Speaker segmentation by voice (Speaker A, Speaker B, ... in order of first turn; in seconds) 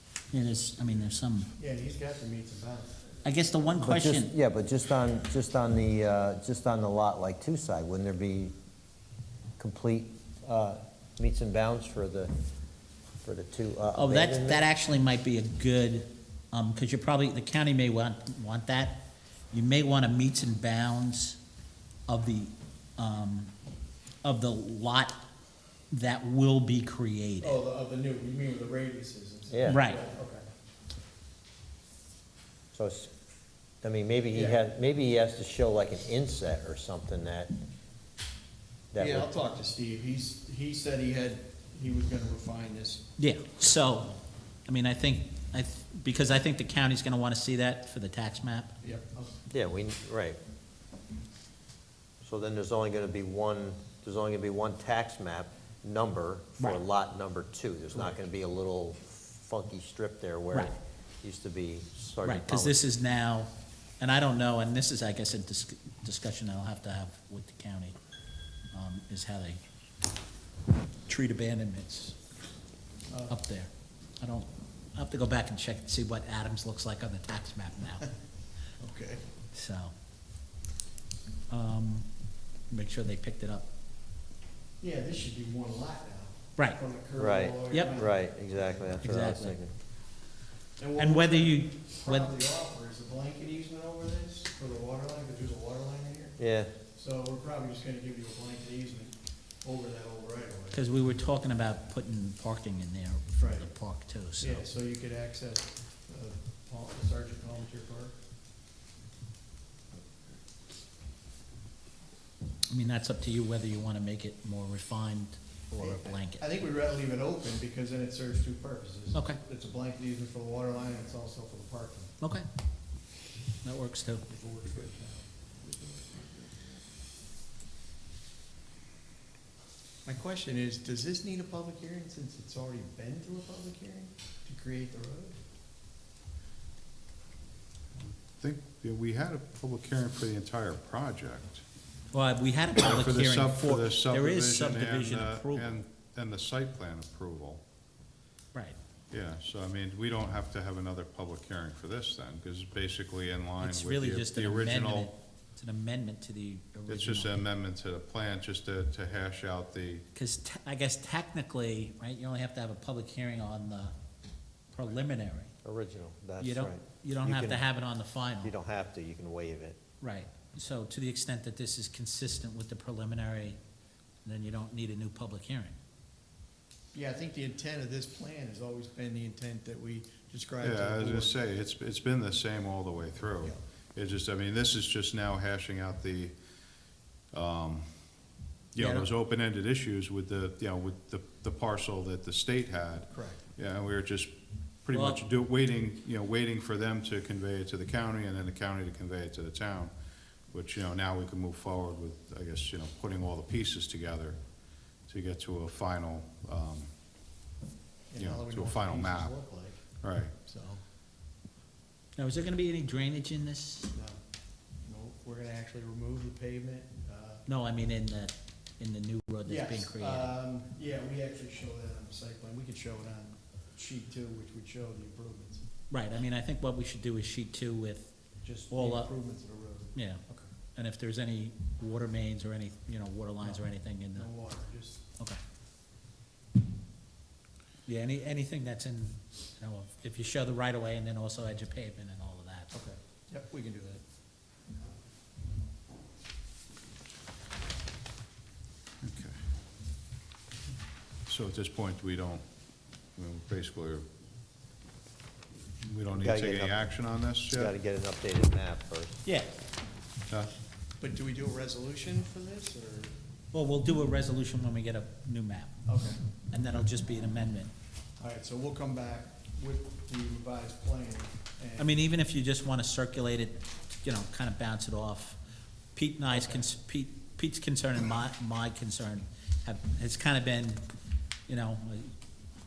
Speaker A: 0.3-1.5, 3.2-4.3, 13.9-21.4, 22.1-23.5, 24.2-25.2, 25.9-27.6, 29.7-30.0, 43.2-44.1, 44.7-48.7, 62.2-68.0, 68.7-69.6, 71.1-72.2, 73.3-78.1, 79.5-79.9, 81.5-82.1, 82.7-83.7, 87.7-88.0, 89.0-89.6, 91.0-92.3, 100.7-104.7, 112.7-116.5, 119.1-119.4, 122.2-122.5, 123.6-124.2, 142.1-145.8, 153.6-157.4, 160.2-163.9, 164.7-165.6, 166.4-168.5, 170.0-173.6, 174.2-175.8, 188.8-189.1, 194.9-195.2, 212.2-213.9, 217.5-220.3, 225.9-228.2, 228.7-229.2, 229.9-230.2, 230.8-234.3, 237.9-242.7, 259.2-259.6, 263.5-265.8, 266.5-267.7, 271.8-275.4, 275.9-280.8, 281.5-282.1
Speaker B: 1.6-3.2, 27.4-30.4, 34.3-34.6, 39.0-43.0, 48.8-49.4, 73.1-73.4, 78.8-79.2, 84.8-89.0, 90.8-100.8, 103.4-103.7, 104.4-108.1, 109.9-110.4, 115.8-122.1, 124.3-126.8, 130.1-135.4, 176.9-181.4, 193.1-193.4, 208.1-210.8, 213.9-214.2, 214.8-217.4, 219.4-225.6, 228.4-230.5, 233.4-235.0, 242.7-244.0, 261.0-263.1, 265.9-266.2, 268.2-271.9, 276.3-276.6
Speaker C: 3.8-8.5, 9.6-12.3, 13.2-14.6, 29.5-29.9, 32.7-33.1, 33.8-37.5, 38.9-39.3, 49.5-50.4, 52.2-62.9, 87.2-89.7, 96.4-96.7, 165.6-167.7, 168.4-169.8, 256.2-256.8, 257.5-259.2
Speaker D: 138.0-141.6, 142.8-147.6, 149.1-155.1, 156.9-160.1, 180.6-206.9, 208.2-209.4, 210.0-210.3, 249.0-249.4, 251.3-254.1, 255.8-257.7